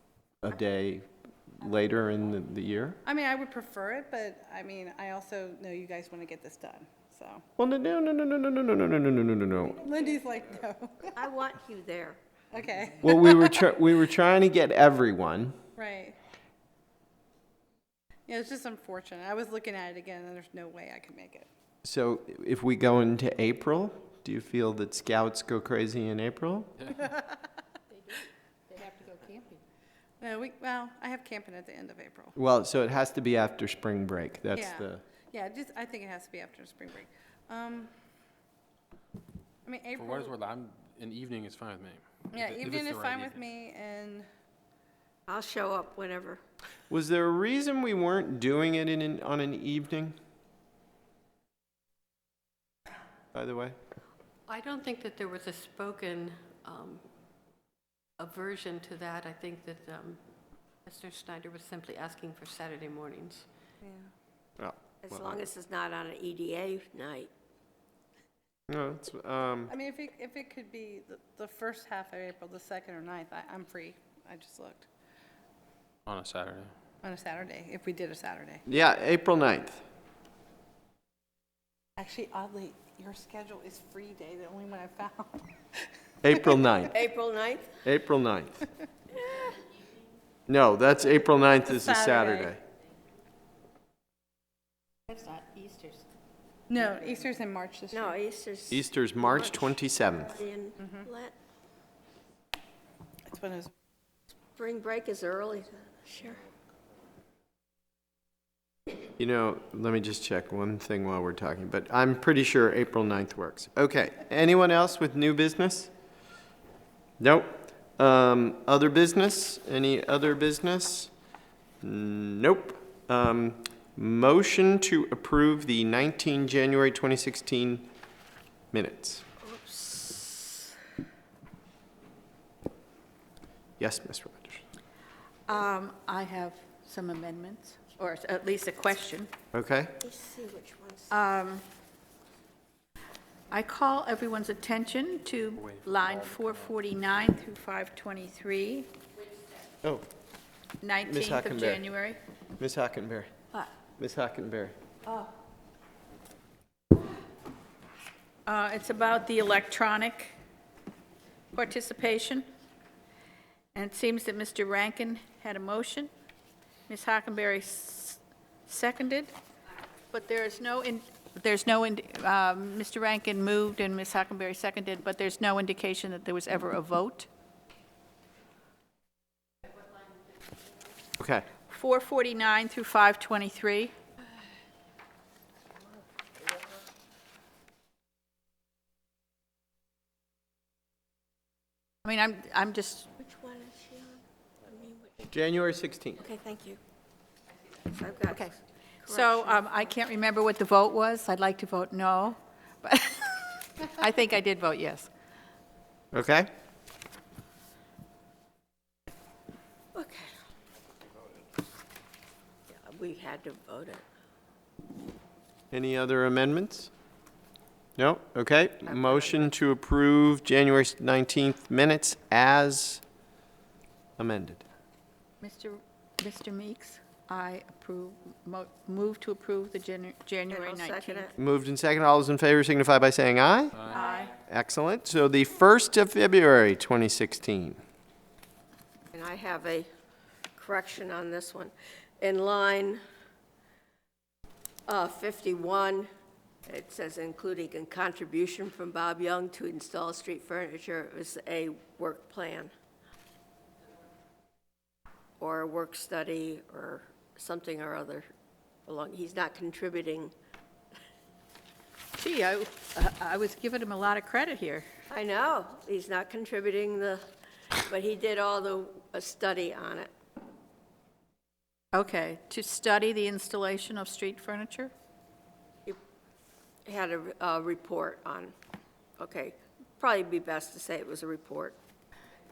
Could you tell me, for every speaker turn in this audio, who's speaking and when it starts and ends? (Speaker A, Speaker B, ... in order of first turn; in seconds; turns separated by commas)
Speaker A: 0.4-3.0, Speaker B: 3.0-7.4, Speaker A: 7.6-9.8, Speaker B: 9.8-11.1, Speaker C: 11.2-12.2, Speaker B: 12.5-13.7, Speaker A: 13.0-15.6, Speaker B: 15.8-16.2, Speaker B: 18.3-21.5, Speaker A: 21.8-26.7, Speaker B: 27.0-27.3, Speaker D: 28.7-29.6, Speaker B: 30.2-32.4, Speaker A: 32.4-35.0, Speaker B: 34.5-37.9, Speaker B: 39.6-40.4, Speaker E: 40.0-43.4, Speaker B: 42.3-44.3, Speaker C: 45.3-46.4, Speaker A: 46.9-50.2, Speaker A: 53.3-53.8, Speaker F: 54.5-57.0, Speaker F: 58.2-60.2, Speaker F: 60.9-63.5, Speaker B: 63.8-64.1, Speaker A: 64.6-65.5, Speaker C: 65.0-67.3, Speaker A: 68.7-69.7, Speaker B: 69.7-74.9, Speaker E: 76.1-76.7, Speaker B: 77.0-78.6, Speaker A: 78.7-79.8, Speaker B: 82.0-85.5, Speaker A: 86.2-87.0, Speaker C: 86.9-87.8, Speaker A: 87.8-88.6, Speaker C: 89.1-89.6, Speaker A: 90.5-92.6, Speaker B: 91.7-92.5, Speaker D: 95.1-96.1, Speaker B: 96.7-98.2, Speaker C: 97.9-99.8, Speaker A: 98.7-100.4, Speaker C: 100.3-101.3, Speaker B: 103.3-103.7, Speaker C: 104.6-106.4, Speaker A: 109.2-115.9, Speaker A: 117.2-121.1, Speaker A: 121.8-127.9, Speaker A: 128.7-129.2, Speaker C: 129.4-130.7, Speaker A: 133.8-134.6, Speaker D: 135.5-139.3, Speaker A: 139.5-139.9, Speaker C: 140.0-141.2, Speaker D: 141.1-141.6, Speaker D: 143.5-148.9, Speaker E: 145.6-146.7, Speaker D: 150.8-152.2, Speaker A: 151.0-151.8, Speaker A: 152.6-153.3, Speaker A: 154.0-154.8, Speaker D: 158.5-160.3, Speaker D: 161.5-162.4, Speaker D: 163.8-166.1, Speaker D: 166.9-169.3, Speaker D: 170.1-177.3, Speaker A: 181.2-181.5, Speaker D: 181.7-183.9, Speaker D: 192.1-193.1, Speaker C: 193.2-195.3, Speaker A: 195.3-196.2, Speaker C: 196.2-196.8, Speaker C: 197.9-199.8, Speaker D: 199.1-205.1, Speaker A: 206.1-206.5, Speaker C: 209.9-210.3, Speaker C: 212.7-214.0, Speaker A: 215.7-216.9, Speaker A: 218.0-223.0, Speaker C: 218.9-219.2, Speaker A: 224.2-224.6, Speaker D: 225.4-231.3, Speaker C: 230.5-231.3, Speaker A: 231.4-233.8, Speaker E: 233.8-234.0, Speaker D: 233.8-234.3, Speaker A: 234.5-237.8, Speaker C: 239.1-239.9, Speaker C: 240.6-243.0, Speaker C: 244.9-246.1, Speaker C: 246.7-252.7, Speaker C: 255.4-258.3, Speaker C: 258.9-260.3, Speaker D: 262.1-264.9, Speaker C: 265.1-267.2, Speaker C: 267.9-270.1, Speaker D: 271.9-274.9, Speaker C: 276.9-278.5, Speaker C: 279.2-281.8